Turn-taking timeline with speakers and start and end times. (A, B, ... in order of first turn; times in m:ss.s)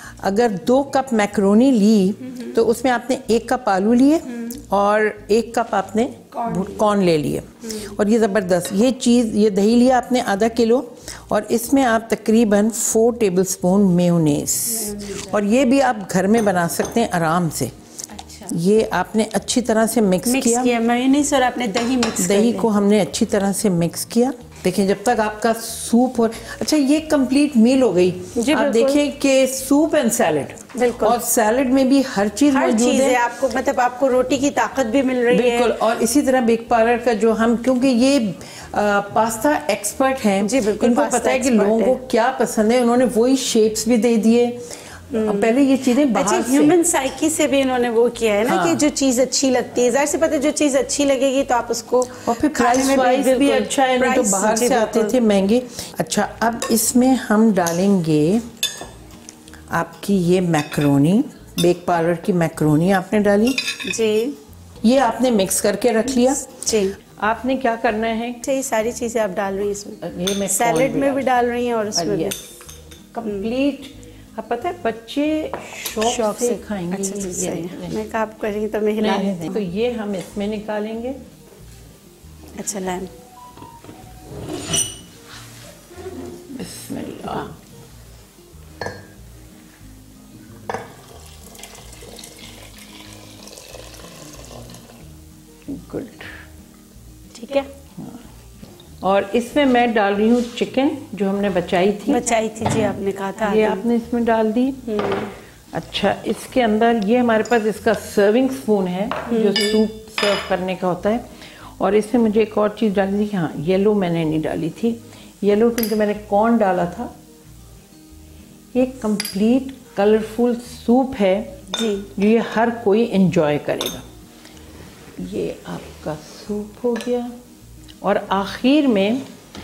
0:00.2-0:17.7 A
0:06.3-0:06.9 B
0:07.6-0:07.9 B
0:14.7-0:15.4 B
0:18.1-0:18.6 B
0:18.5-0:20.7 A
0:20.2-0:22.7 B
0:22.2-0:33.2 A
0:28.4-0:29.0 B
0:30.7-0:31.2 B
0:32.5-0:35.7 B
0:35.3-0:46.8 A
0:40.4-0:42.0 B
0:45.1-0:45.6 B
0:46.1-0:55.2 B
0:48.5-0:48.8 A
0:52.3-0:58.4 A
0:59.7-1:03.6 A
1:03.8-1:04.4 B
1:04.8-1:06.5 A
1:06.4-1:07.0 B
1:07.2-1:08.4 A
1:08.4-1:12.4 B
1:10.0-1:11.2 A
1:12.0-1:12.6 A
1:13.1-1:18.0 A
1:13.2-1:13.5 B
1:16.0-1:19.6 B
1:19.0-1:21.2 A
1:22.6-1:23.1 B
1:26.5-1:27.6 A
1:35.7-1:36.3 A
1:37.3-1:37.7 B
1:39.0-1:42.3 A
1:42.1-1:43.8 B
1:43.4-1:44.8 A
1:44.9-1:45.3 B
1:45.7-1:51.2 A
1:49.3-1:49.8 B
1:51.8-1:57.1 A
1:58.7-2:01.5 A
2:01.7-2:02.1 B
2:02.2-2:04.0 A
2:05.2-2:07.3 A
2:08.0-2:09.2 A